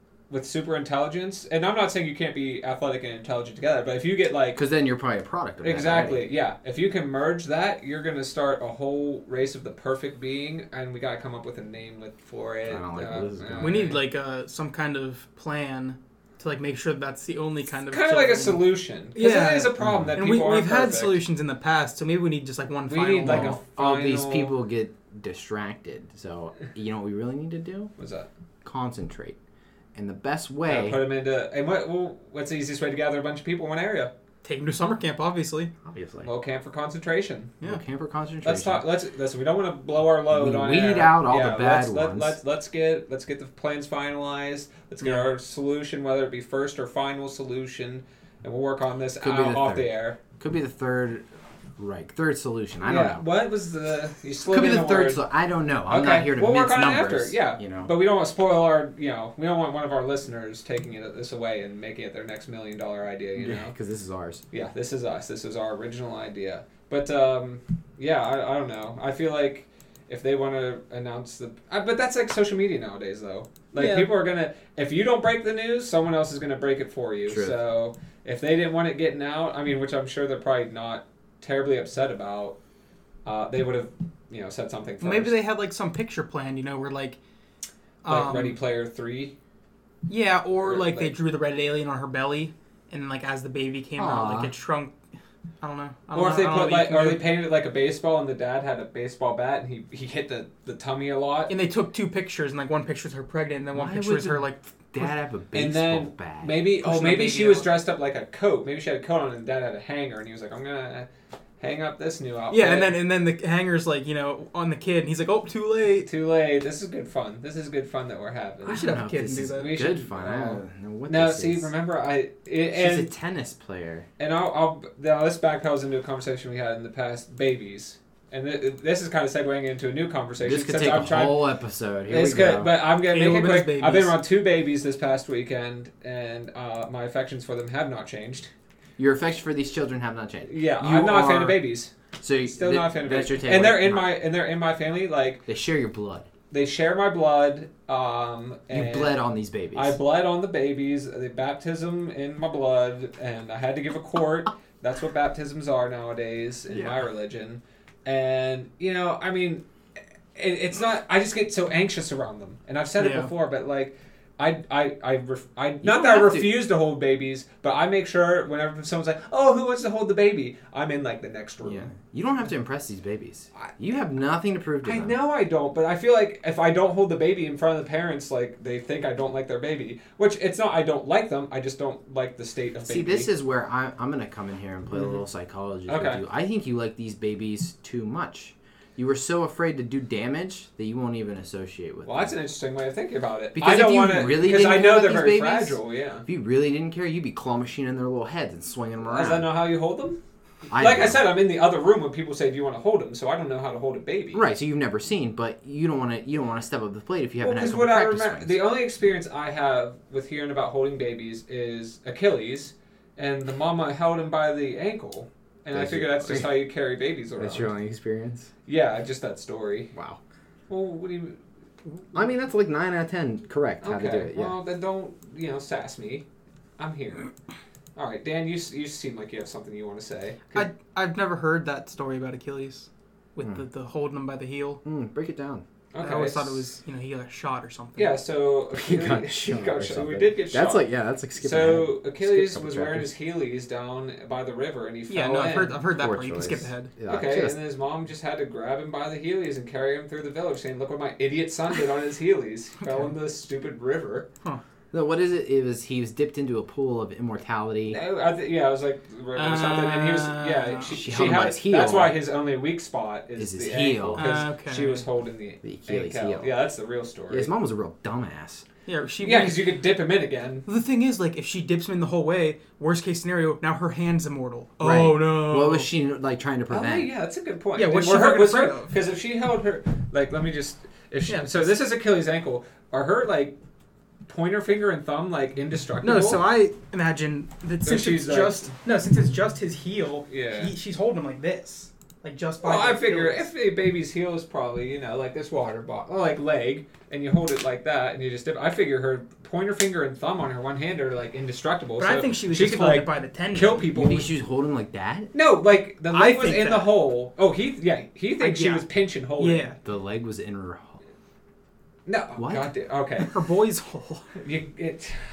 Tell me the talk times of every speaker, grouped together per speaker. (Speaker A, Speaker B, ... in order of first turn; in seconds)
Speaker A: 0.3-4.6, 5.6-14.1, 17.9-21.2, 22.9-24.6, 28.0-28.3, 30.7-34.1, 36.2-37.5, 38.4-50.2, 52.9-55.2, 55.9-63.7, 64.5-82.6, 83.2-85.4, 88.1-89.3, 90.6-91.1, 96.1-101.5, 105.5-111.1, 111.6-113.0, 116.1-123.1, 124.2-131.5, 132.1-138.5, 140.5-141.9, 142.5-145.4, 146.5-149.2, 149.7-159.6, 160.3-171.9, 174.8-183.3, 185.9-186.2, 192.1-196.2, 199.1-200.2, 200.7-204.4, 207.4-217.7, 218.7-219.9, 220.7-221.4, 223.8-226.2, 226.8-227.3, 228.0-230.7, 235.9-236.6, 238.0-240.8, 241.4-245.8, 247.1-254.3, 257.9-267.5, 269.2-270.7, 276.7-283.6, 284.3-286.4, 287.8-288.7, 290.3-290.8, 292.6-304.3, 305.3-309.8, 312.1-313.4, 314.4-315.2
Speaker B: 4.5-6.3, 12.7-14.0, 19.8-20.2, 23.2-27.9, 28.6-29.4, 29.9-31.0, 35.9-36.3, 37.6-38.9, 40.3-42.4, 49.2-51.3, 51.8-53.2, 54.5-57.9, 63.4-64.4, 77.3-77.6, 94.0-94.5, 103.7-106.7, 118.7-121.7, 122.7-124.1, 130.4-132.7, 139.0-141.6, 142.2-144.1, 145.5-146.3, 148.7-150.0, 165.8-166.6, 171.6-175.2, 182.8-192.3, 193.5-199.5, 200.7-201.3, 204.3-208.6, 215.7-216.5, 217.4-218.5, 219.9-220.2, 222.1-224.6, 234.8-235.6, 238.7-243.1, 246.0-247.6, 254.9-258.0, 260.9-262.2, 263.4-264.3, 265.6-266.5, 267.3-268.6, 274.8-277.1, 303.9-305.3, 309.8-311.0, 312.4-312.7
Speaker C: 13.6-23.6, 34.4-35.7, 73.8-74.1, 85.0-87.2, 88.0-88.6, 90.1-94.9, 95.6-97.2, 101.5-105.1, 106.8-107.7, 112.5-116.1, 118.7-119.7, 133.1-134.2, 163.0-163.3, 230.5-234.8, 236.0-238.2, 245.1-246.9, 259.4-261.0, 264.2-265.1, 268.9-269.7, 270.7-275.9, 277.8-278.9, 281.3-281.7, 286.0-293.5, 302.0-303.9, 306.1-306.9, 308.4-308.9, 309.4-309.8, 313.2-314.3